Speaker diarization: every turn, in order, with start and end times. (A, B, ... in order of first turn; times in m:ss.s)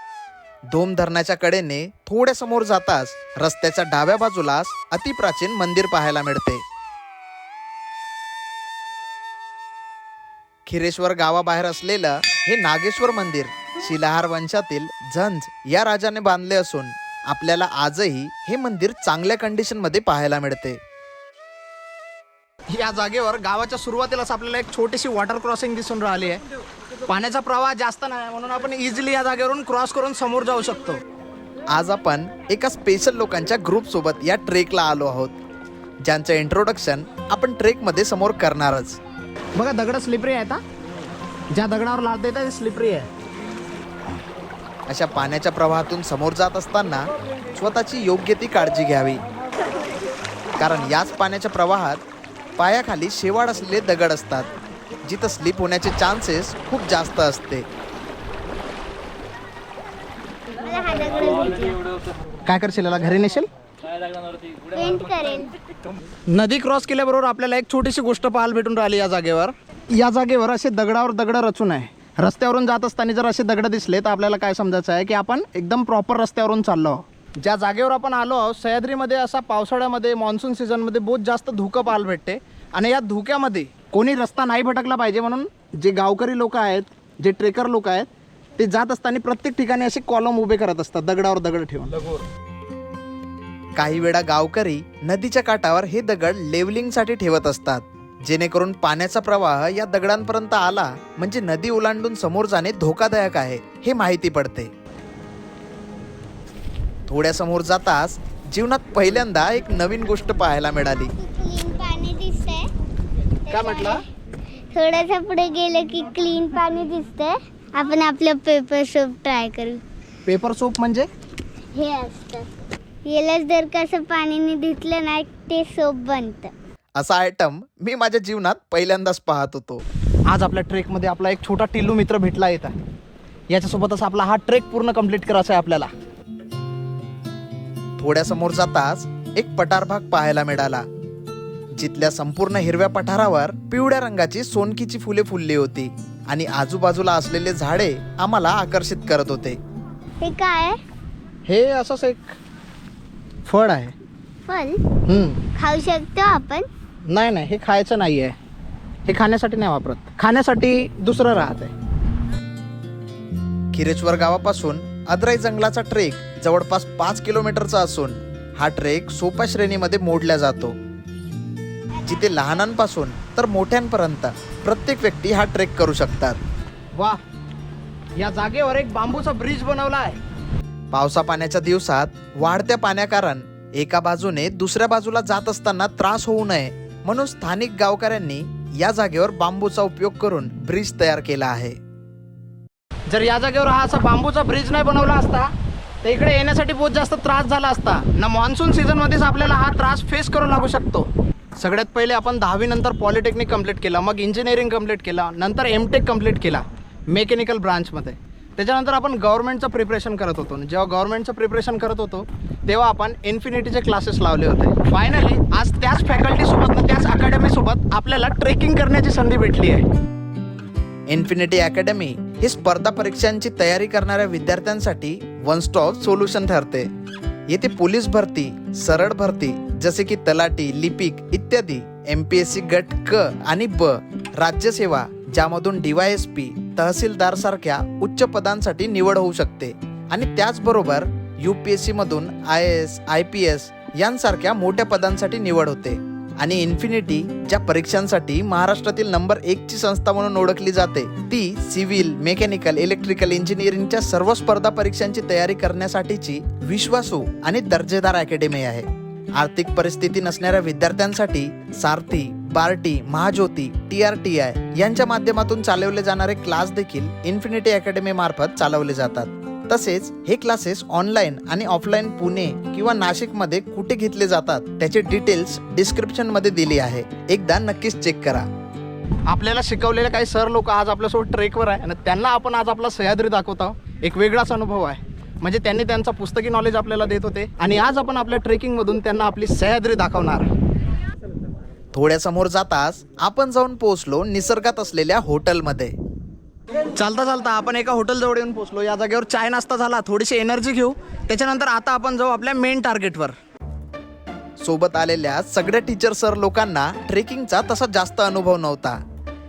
0:00.7-0:06.6 A
0:10.6-0:20.8 A
0:22.7-0:26.4 B
0:27.1-0:31.0 B
0:31.7-0:35.4 A
0:36.0-0:39.0 A
0:39.5-0:40.6 B
0:41.5-0:43.1 B
0:44.9-0:49.2 A
0:50.6-0:52.0 A
0:52.6-0:54.5 A
0:55.0-0:57.7 A
1:00.6-1:01.8 C
1:02.4-1:03.5 B
1:04.7-1:05.5 C
1:06.3-1:32.0 B
1:33.8-1:44.7 A
1:47.1-1:51.1 A
1:51.2-1:52.7 C
1:53.5-1:54.0 C
1:53.5-1:54.0 B
1:54.7-1:59.8 C
2:00.2-2:01.1 B
2:01.8-2:02.5 C
2:03.0-2:06.5 C
2:07.0-2:09.8 A
2:10.3-2:12.7 B
2:13.5-2:15.9 B
2:18.0-2:20.8 A
2:21.7-2:29.6 A
2:30.2-2:30.8 C
2:31.5-2:32.4 B
2:33.4-2:33.9 B
2:34.5-2:34.8 C
2:35.0-2:35.4 B
2:35.6-2:36.7 C
2:37.1-2:38.3 B
2:39.0-2:41.7 B
2:43.7-2:50.8 A
2:52.0-2:56.4 A
2:58.2-3:00.2 B
3:00.9-3:11.8 A
3:13.1-3:15.5 B
3:16.0-3:39.8 B
3:41.1-3:46.9 A
3:47.5-4:38.4 A
4:39.2-4:50.5 B
4:51.9-4:55.9 A
4:56.9-5:03.4 B
5:04.6-5:09.0 A